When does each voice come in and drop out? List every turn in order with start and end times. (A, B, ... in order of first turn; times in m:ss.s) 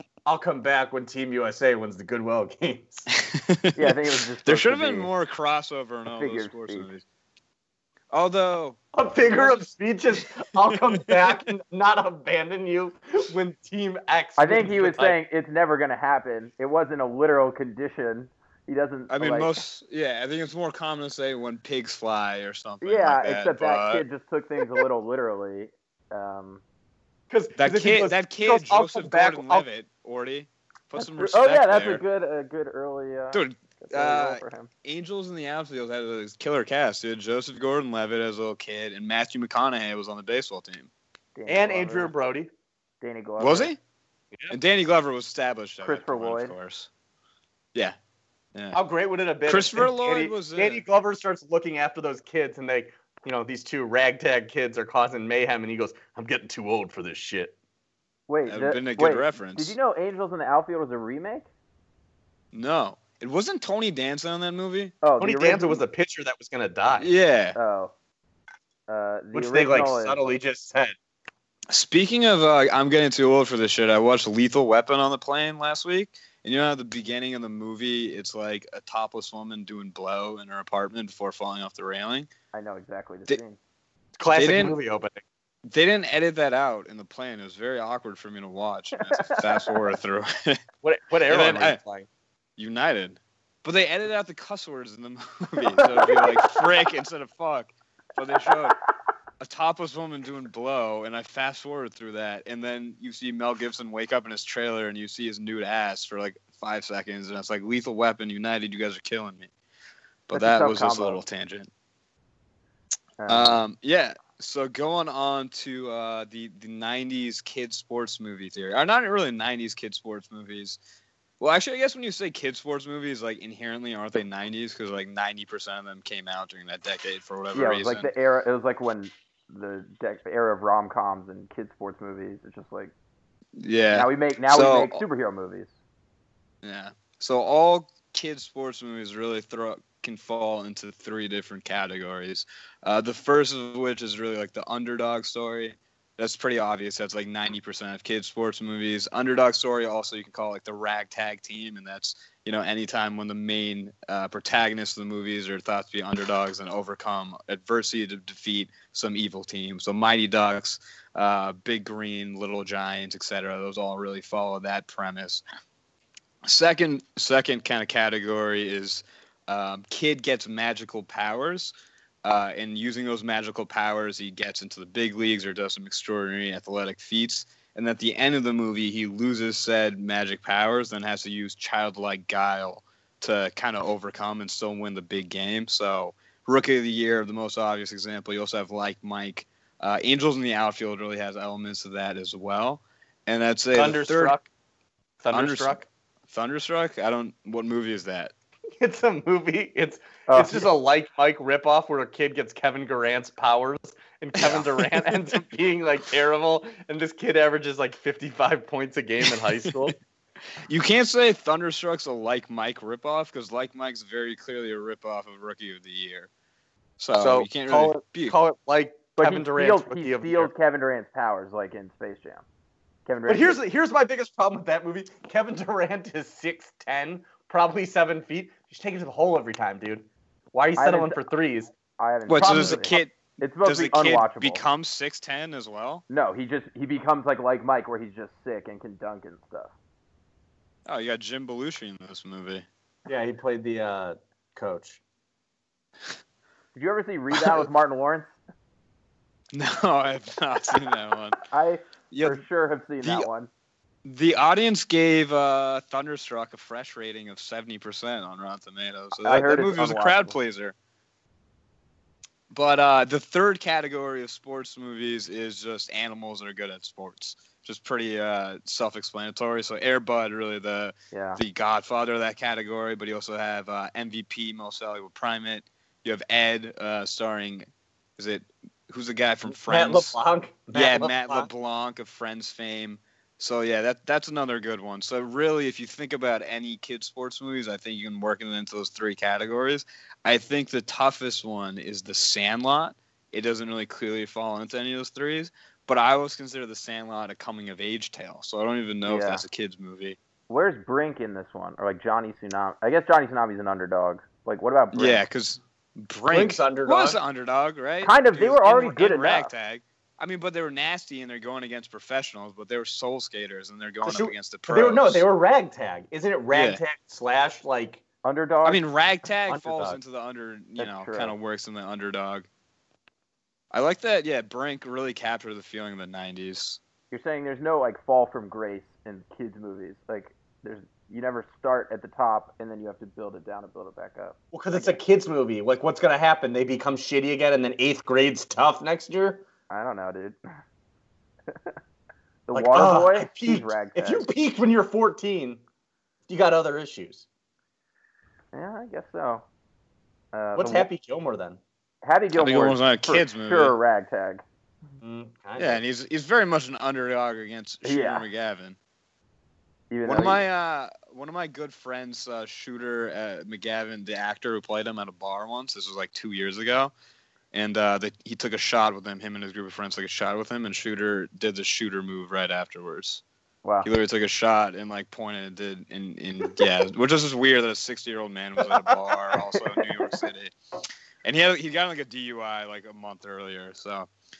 0:00.2-0:03.1 A
0:03.2-0:03.9 B
0:03.7-0:05.1 C
0:04.4-0:07.0 B
0:06.1-0:06.9 C
0:08.1-0:09.7 B
0:08.9-0:15.2 A
0:10.7-0:11.4 B
0:14.4-0:19.6 C
0:19.1-0:24.0 B
0:22.8-0:26.6 C
0:27.3-0:29.6 A
0:27.6-0:32.0 B
0:31.0-0:34.7 C
0:33.3-0:40.9 B
0:41.4-0:42.1 C
0:41.5-0:42.5 A
0:43.0-0:43.7 C
0:43.4-0:43.8 B
0:44.5-0:46.9 B
0:45.8-0:46.5 C
0:48.5-0:48.8 B
0:48.7-0:57.5 A
0:49.5-0:50.8 B
0:58.3-1:01.5 C
0:58.4-0:59.7 B
1:02.5-1:05.0 B
1:05.0-1:05.8 C
1:05.2-1:07.1 A
1:06.9-1:07.6 B
1:07.5-1:07.9 C
1:08.9-1:10.2 C
1:09.3-1:10.9 A
1:11.7-1:22.3 B
1:22.5-1:23.6 C
1:24.2-1:25.2 A
1:24.4-1:24.8 B
1:25.7-1:30.6 B
1:29.1-1:29.7 C
1:30.8-1:32.1 A
1:31.3-1:31.8 B
1:32.6-1:38.8 B
1:35.8-1:36.6 C
1:39.4-1:49.5 B
1:50.3-1:51.7 B
1:50.3-1:51.2 C
1:53.2-1:53.6 C
1:53.3-2:00.8 B
2:01.4-2:08.1 B
2:07.5-2:12.9 C
2:13.6-2:15.0 B
2:13.9-2:15.7 C
2:16.6-2:45.4 B
2:46.4-2:51.7 B
2:52.2-3:14.4 B
3:13.7-3:14.5 A
3:15.2-3:15.9 A
3:15.3-3:15.8 B
3:16.3-3:18.3 B
3:18.8-3:30.0 A
3:20.3-3:20.7 C
3:24.4-3:25.4 B
3:29.6-3:29.9 B
3:30.6-3:36.3 B
3:37.0-3:38.4 B
3:37.2-3:40.5 A
3:39.2-3:42.4 C
3:43.0-3:43.6 C
3:43.2-3:51.7 A
3:50.8-3:51.2 C
3:52.0-3:54.6 C
3:52.3-3:56.0 B
3:52.4-3:53.0 A
3:56.1-3:59.7 C
4:00.8-4:02.6 B
4:03.1-4:05.0 A
4:06.7-4:08.4 C
4:07.3-4:07.6 B
4:09.5-4:11.4 B
4:11.5-4:13.5 C
4:12.1-4:12.4 B
4:13.0-4:13.3 B
4:14.0-4:20.7 B
4:19.2-4:20.4 C
4:22.5-4:40.2 B
4:31.1-4:31.4 C
4:39.5-4:41.5 A
4:40.7-5:00.2 B
4:59.0-4:59.4 C
5:00.5-5:05.2 C
5:04.9-5:15.2 B
5:06.3-5:07.2 A
5:08.0-5:09.5 C
5:14.0-5:18.0 A
5:16.5-5:16.8 B
5:18.2-5:18.8 C
5:18.6-5:22.5 B
5:19.5-5:20.0 A
5:20.8-5:21.3 C
5:23.7-5:26.8 B
5:27.1-5:35.0 C
5:34.5-5:39.4 A
5:39.7-5:40.4 C
5:42.5-5:44.3 C
5:42.5-5:45.6 A
5:46.3-5:47.2 A
5:48.5-5:49.4 C
5:50.3-5:50.9 C
5:50.5-5:51.6 A
5:52.0-5:54.4 C
5:52.3-5:53.8 B
5:55.0-5:55.8 A
5:55.6-5:58.8 B
5:57.8-5:58.2 C
5:59.9-6:00.4 C
6:00.0-6:06.9 B
6:07.5-6:13.2 B
6:13.6-6:13.9 C
6:13.8-6:20.5 B
6:19.5-6:20.2 C
6:21.2-6:24.1 B